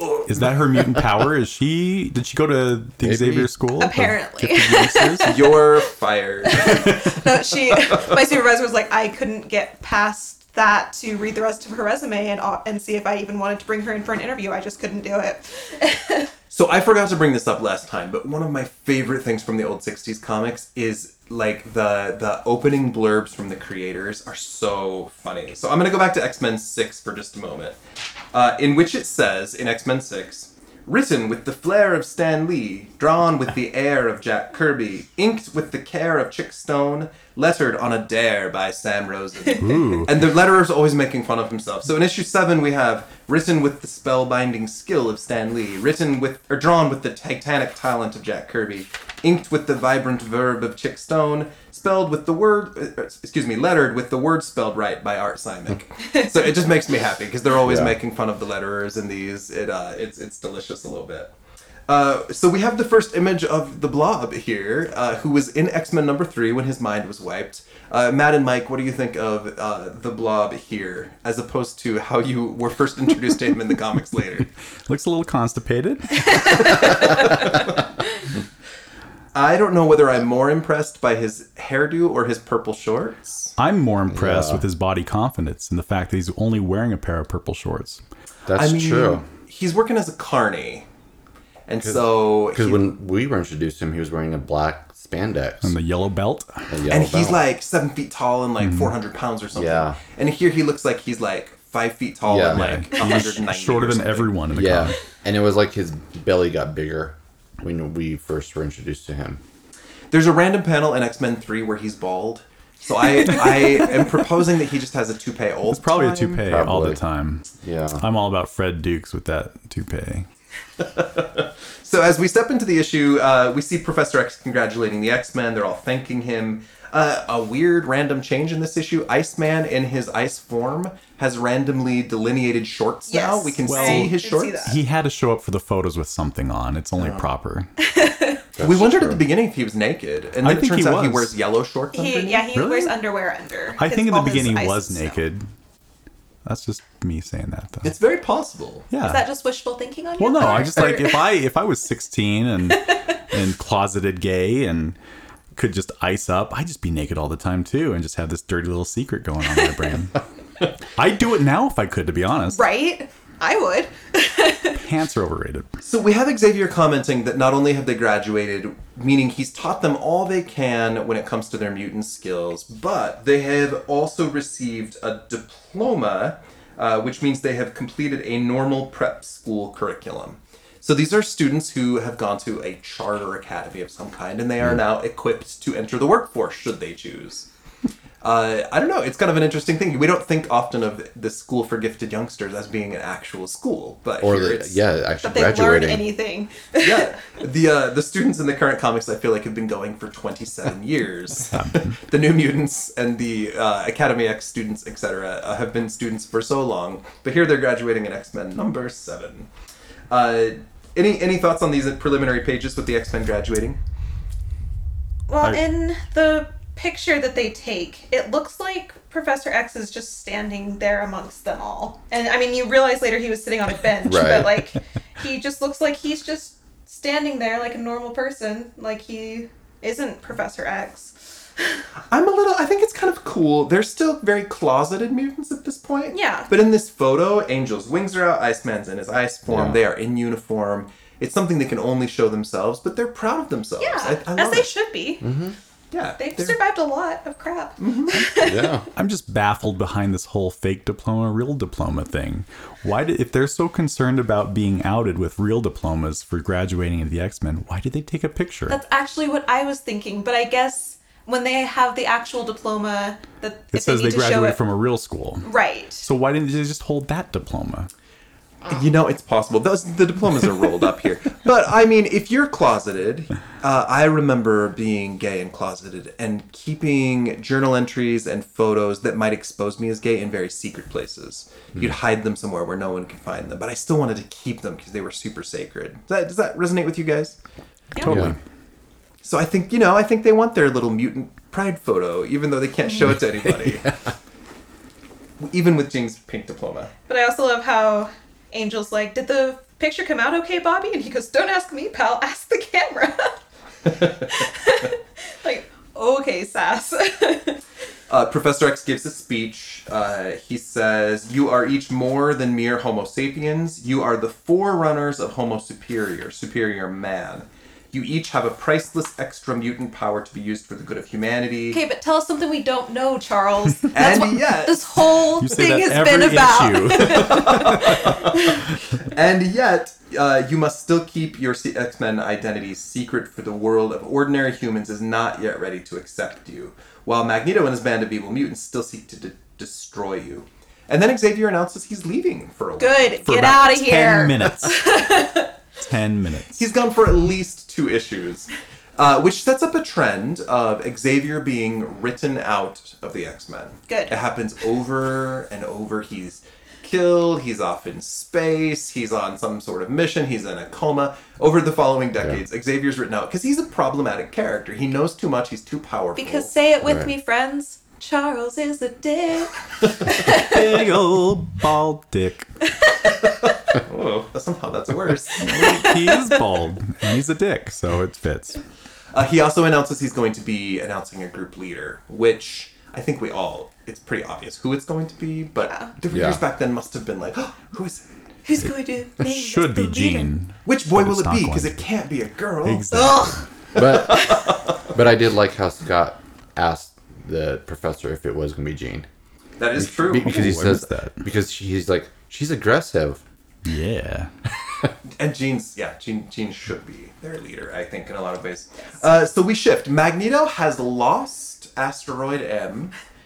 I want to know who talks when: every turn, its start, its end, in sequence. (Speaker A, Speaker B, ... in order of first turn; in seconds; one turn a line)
Speaker A: 0.3-5.5
Speaker B: 3.0-3.5
Speaker C: 3.8-5.8
Speaker D: 5.2-8.1
Speaker C: 6.4-16.3
Speaker D: 16.5-27.8
Speaker D: 28.3-61.3
Speaker A: 39.5-40.2
Speaker B: 57.6-58.0
Speaker D: 61.9-74.5
Speaker A: 74.9-77.0
Speaker C: 76.3-77.0
Speaker D: 76.6-77.7
Speaker D: 79.3-83.5
Speaker A: 83.6-88.0
Speaker B: 84.1-84.7
Speaker B: 88.5-89.2
Speaker D: 88.5-90.9
Speaker D: 91.7-92.9
Speaker B: 91.8-95.7
Speaker A: 95.6-96.8
Speaker B: 96.7-97.4
Speaker D: 96.9-104.3
Speaker A: 98.6-98.9
Speaker B: 99.5-100.0
Speaker B: 102.2-102.8
Speaker A: 102.5-105.0
Speaker B: 104.5-109.4
Speaker D: 110.1-116.4
Speaker A: 115.7-120.3
Speaker B: 116.5-117.0
Speaker B: 117.6-118.0
Speaker D: 120.8-134.7
Speaker C: 133.1-134.8
Speaker A: 133.7-137.7
Speaker D: 137.0-137.2
Speaker C: 137.8-138.4
Speaker B: 138.6-139.2
Speaker D: 138.6-142.5
Speaker A: 140.4-141.3
Speaker C: 141.9-145.2
Speaker A: 142.5-143.0
Speaker A: 143.8-145.4
Speaker A: 146.4-147.9
Speaker D: 147.8-148.9
Speaker A: 148.9-149.2
Speaker C: 149.0-151.3
Speaker A: 150.2-155.0
Speaker A: 155.5-160.2
Speaker A: 160.9-162.6
Speaker C: 162.5-164.8
Speaker A: 164.7-165.8
Speaker D: 165.8-187.5
Speaker D: 188.2-194.8
Speaker B: 194.2-196.1
Speaker C: 195.2-197.1
Speaker D: 196.8-209.5
Speaker A: 201.5-201.9
Speaker D: 210.1-213.8
Speaker C: 215.3-231.8
Speaker B: 224.0-224.6
Speaker D: 232.1-244.7
Speaker C: 236.1-236.5
Speaker B: 239.4-239.8
Speaker C: 243.8-245.2
Speaker B: 245.2-245.6
Speaker D: 245.9-246.6
Speaker C: 246.2-248.8
Speaker D: 247.8-248.2
Speaker B: 248.3-248.9
Speaker A: 248.9-258.8
Speaker C: 258.7-264.6
Speaker A: 263.7-265.5
Speaker C: 265.4-266.1
Speaker A: 266.0-267.9
Speaker D: 268.7-287.4
Speaker A: 288.0-288.4
Speaker B: 288.0-288.4
Speaker D: 289.2-293.9
Speaker D: 295.4-296.9
Speaker C: 297.1-303.4
Speaker D: 303.9-304.4
Speaker C: 303.9-307.6
Speaker D: 308.1-321.8
Speaker C: 321.7-328.6
Speaker D: 323.9-324.9
Speaker A: 325.4-328.0
Speaker D: 326.9-343.2
Speaker C: 342.8-345.5
Speaker A: 343.2-345.2
Speaker A: 345.8-346.6
Speaker D: 346.5-366.5
Speaker C: 353.9-354.1
Speaker C: 366.1-370.6
Speaker B: 366.8-367.1
Speaker A: 370.2-372.5
Speaker C: 372.8-373.1
Speaker D: 373.2-375.8
Speaker A: 375.4-378.6
Speaker C: 375.5-376.4
Speaker D: 379.1-388.1
Speaker C: 385.7-385.9
Speaker B: 386.1-386.4
Speaker C: 388.4-390.3
Speaker A: 388.6-391.8
Speaker D: 390.6-394.7
Speaker A: 392.6-393.4
Speaker C: 392.9-393.4
Speaker B: 393.7-399.1
Speaker D: 399.6-400.4
Speaker B: 399.8-403.2
Speaker A: 400.2-401.2
Speaker A: 403.6-404.3
Speaker D: 405.1-412.9